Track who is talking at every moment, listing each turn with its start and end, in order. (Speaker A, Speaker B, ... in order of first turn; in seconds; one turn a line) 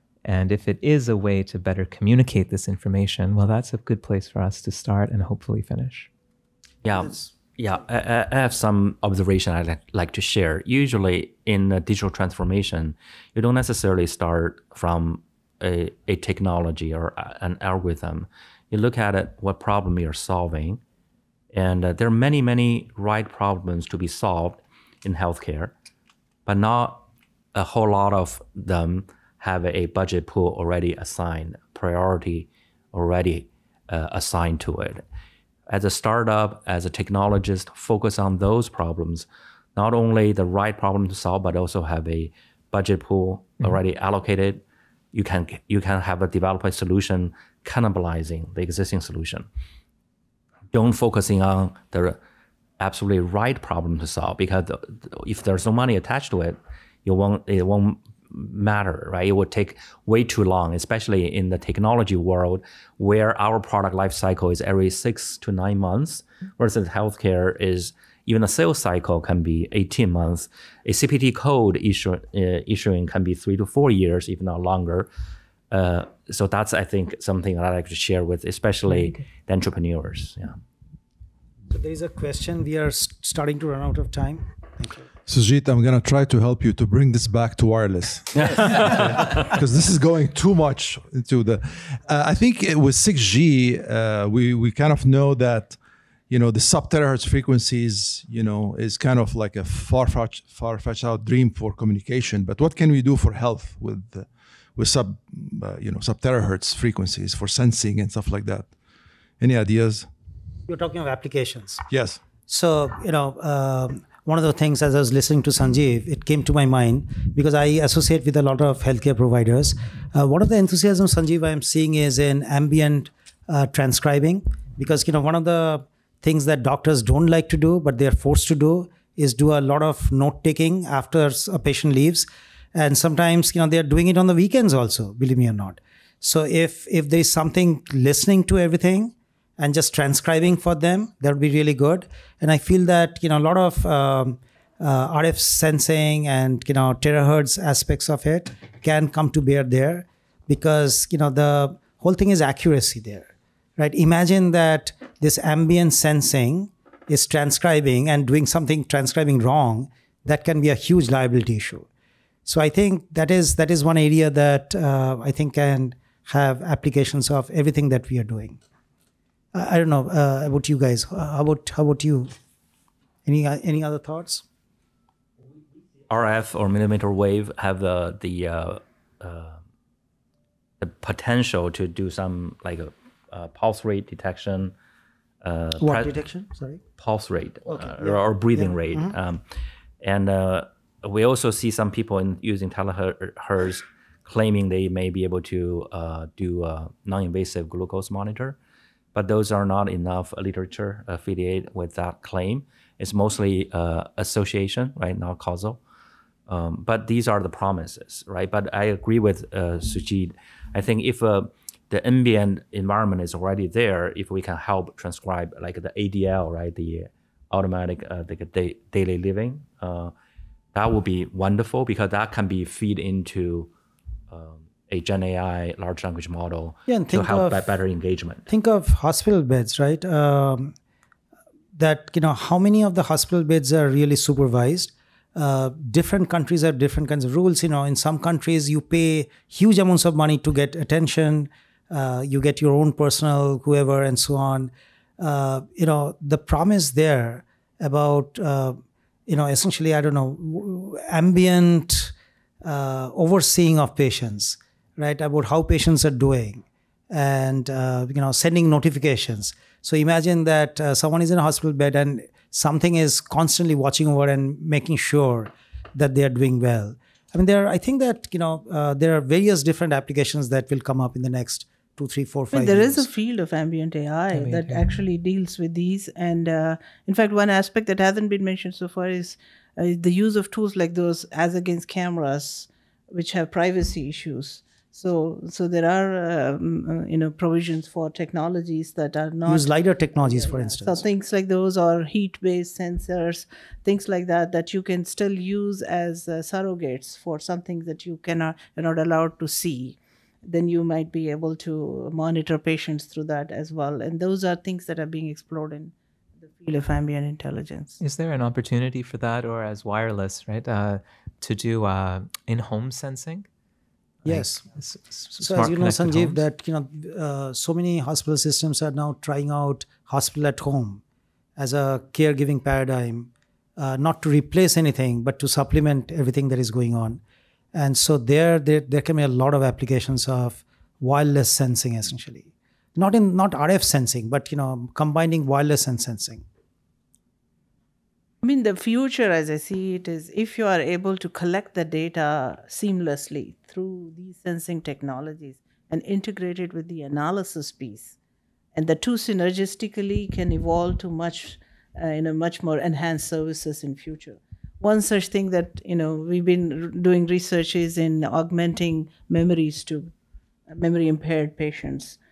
Speaker A: 0.2-6.1
Speaker B: 6.8-20.8
Speaker B: 21.5-25.7
Speaker B: 26.5-35.0
Speaker B: 35.7-49.5
Speaker B: 50.7-52.2
Speaker B: 52.8-75.1
Speaker B: 75.7-80.6
Speaker C: 81.7-85.0
Speaker D: 85.3-95.8
Speaker D: 96.3-108.7
Speaker D: 109.4-110.1
Speaker C: 110.7-111.8
Speaker D: 111.9-112.2
Speaker C: 112.5-161.9
Speaker C: 162.5-168.6
Speaker C: 169.5-172.3
Speaker C: 173.2-174.4
Speaker B: 176.1-179.6
Speaker B: 180.8-184.7
Speaker B: 185.4-186.2
Speaker C: 185.8-186.8
Speaker B: 187.0-189.4
Speaker C: 187.7-189.2
Speaker B: 190.0-198.6
Speaker B: 199.1-205.8
Speaker B: 206.5-220.1
Speaker B: 220.8-223.7
Speaker B: 224.3-228.5
Speaker C: 226.9-227.6
Speaker C: 228.5-230.7
Speaker C: 231.8-273.1
Speaker E: 272.5-305.9
Speaker A: 274.3-275.0
Speaker C: 289.5-291.0
Speaker E: 306.5-308.0
Speaker A: 308.0-313.5
Speaker A: 314.2-316.4
Speaker C: 314.2-314.6
Speaker C: 315.4-321.0
Speaker C: 321.6-327.2
Speaker C: 327.7-336.4
Speaker E: 338.4-348.1
Speaker E: 348.8-360.1
Speaker E: 360.7-362.2